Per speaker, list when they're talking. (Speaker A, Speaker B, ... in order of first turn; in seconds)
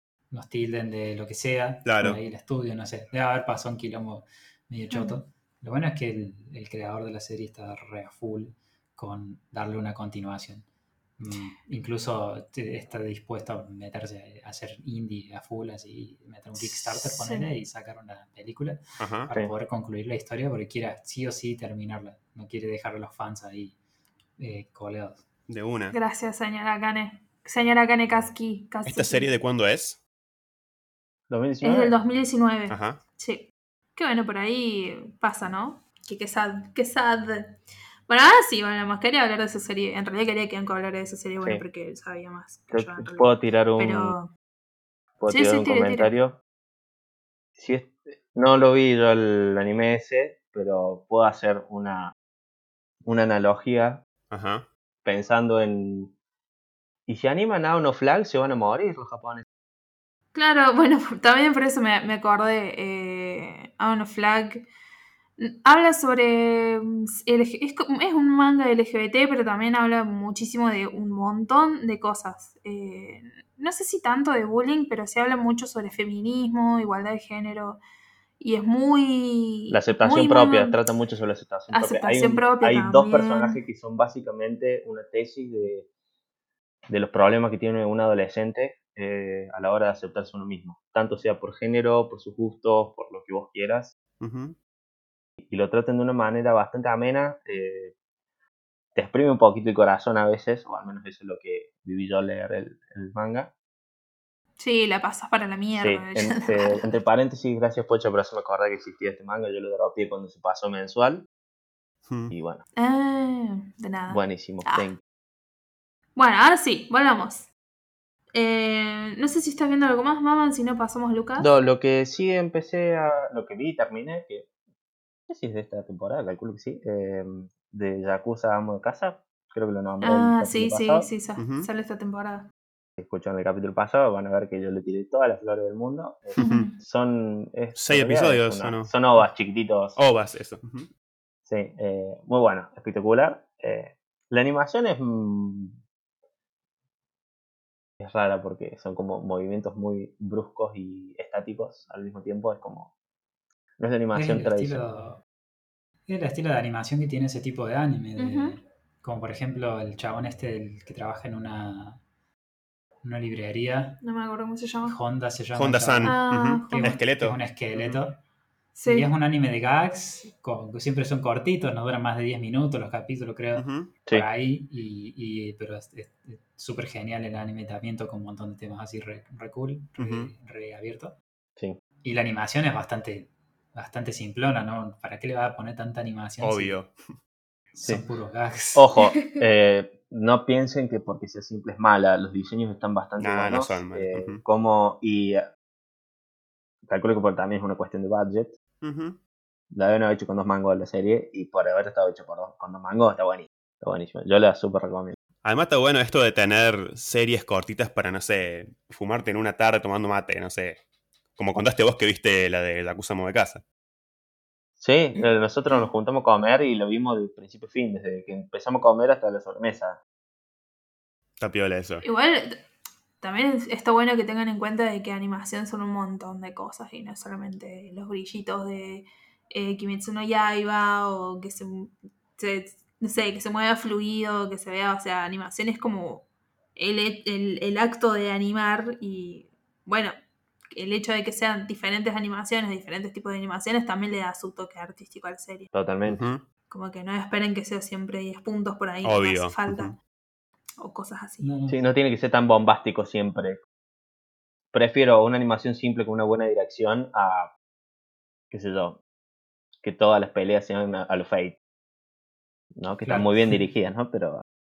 Speaker A: 0.3-10.7, 11.2-23.8, 24.4-25.2, 154.1-155.2, 156.1-162.0, 163.0-164.0, 164.9-166.2, 166.7-168.2, 168.9-181.2, 182.0-186.8, 187.7-188.8, 251.4-251.8, 263.1-263.6
Speaker B: 1.9-2.2, 19.0-19.3, 25.5-26.0, 28.9-30.0, 32.7-33.0, 54.3-54.7, 94.2-94.6, 112.1-112.3, 131.4-131.7, 136.4-136.7, 137.8-139.2, 140.0-140.9, 165.6-168.0, 173.6-173.9, 180.0-180.3, 186.4-187.0, 193.2-194.4, 198.8-199.2, 205.4-210.8, 211.4-213.6, 221.4-222.0, 246.1-246.4, 249.0-249.9
Speaker C: 4.9-5.2, 16.6-17.5, 25.9-29.3, 31.6-37.6, 38.1-44.3, 45.3-46.1, 60.4-64.7, 65.4-77.8, 78.4-80.8, 81.7-83.6, 104.6-106.9, 112.8-114.9, 116.2-117.5, 118.3-121.5, 130.0-132.5, 136.4-136.7, 158.2-158.6, 164.0-165.0, 166.0-167.0, 168.8-169.1, 189.0-189.4, 222.0-222.6, 223.2-236.2, 236.8-240.2, 240.7-245.7, 246.7-249.9, 250.8-251.5
Speaker D: 31.3-31.9, 42.7-44.1, 45.2-46.4, 47.6-52.1, 53.1-54.0, 55.0-56.1, 57.1-59.5, 79.7-85.9, 86.9-93.9, 95.4-97.9, 99.0-103.5, 105.8-111.2, 112.3-112.6, 114.1-115.0, 121.4-124.5, 125.3-131.1, 133.0-140.0, 141.5-145.8, 148.0-152.9, 153.8-154.8, 188.8-195.4, 196.9-198.5, 199.7-205.2, 214.8-220.0, 245.7-246.2, 251.7-253.6, 254.7-257.5, 258.5-259.0, 259.8-261.6, 262.8-264.4